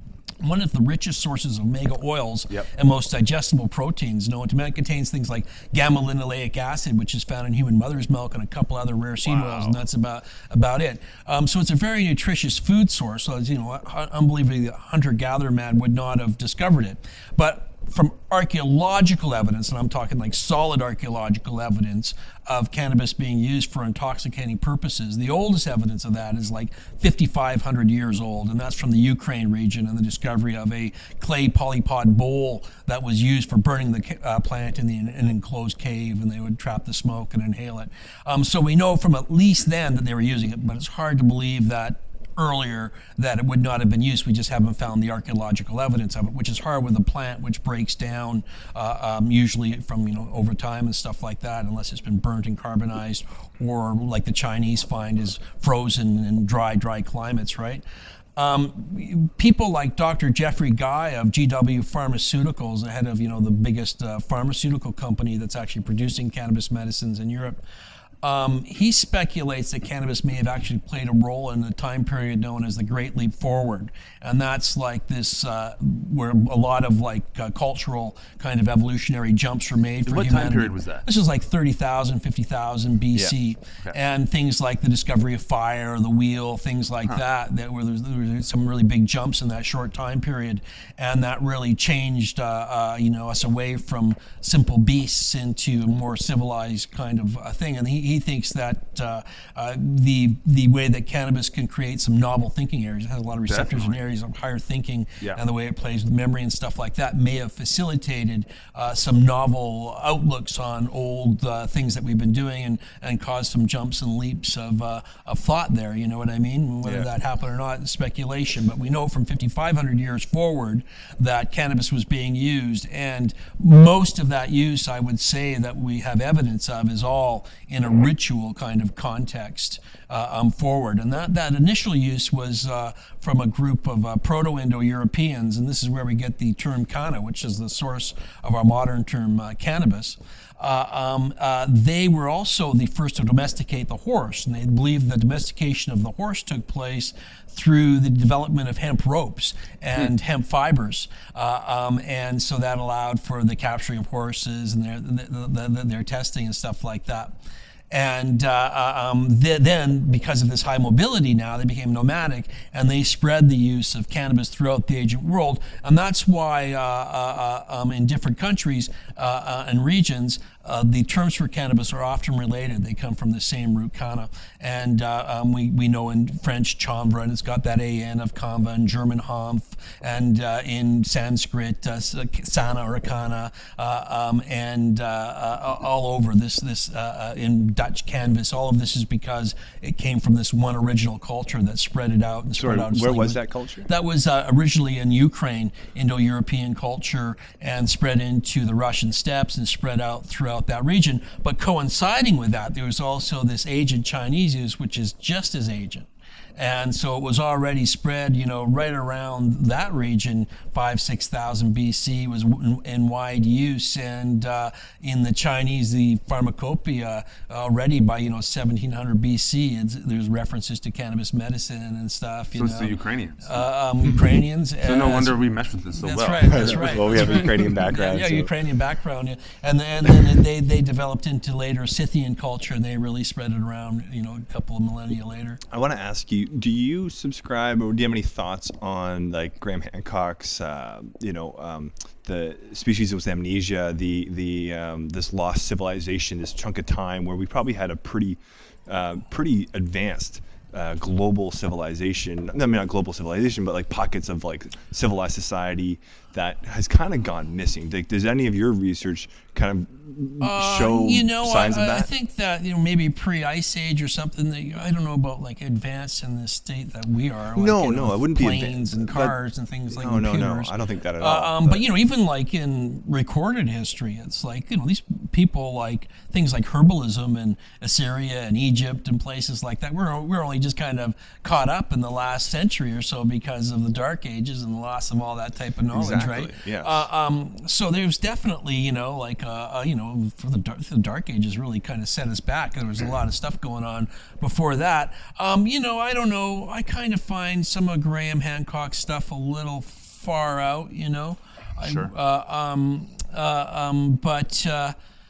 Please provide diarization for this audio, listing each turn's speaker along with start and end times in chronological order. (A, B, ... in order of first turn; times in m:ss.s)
0:00.4-0:57.8 A
0:09.3-0:09.8 B
0:58.4-1:07.6 A
1:08.2-2:37.4 A
1:20.1-1:21.0 B
1:43.5-1:44.0 B
1:56.8-1:57.1 C
2:37.9-3:45.4 A
3:12.6-3:13.9 C
3:42.6-3:43.6 B
3:44.8-3:47.4 B
3:46.0-3:55.6 A
3:46.5-3:48.5 C
3:55.7-4:22.1 C
4:20.4-5:05.0 A
4:27.6-4:29.4 C
4:29.9-4:31.8 C
4:45.9-4:47.0 C
5:01.8-5:02.1 B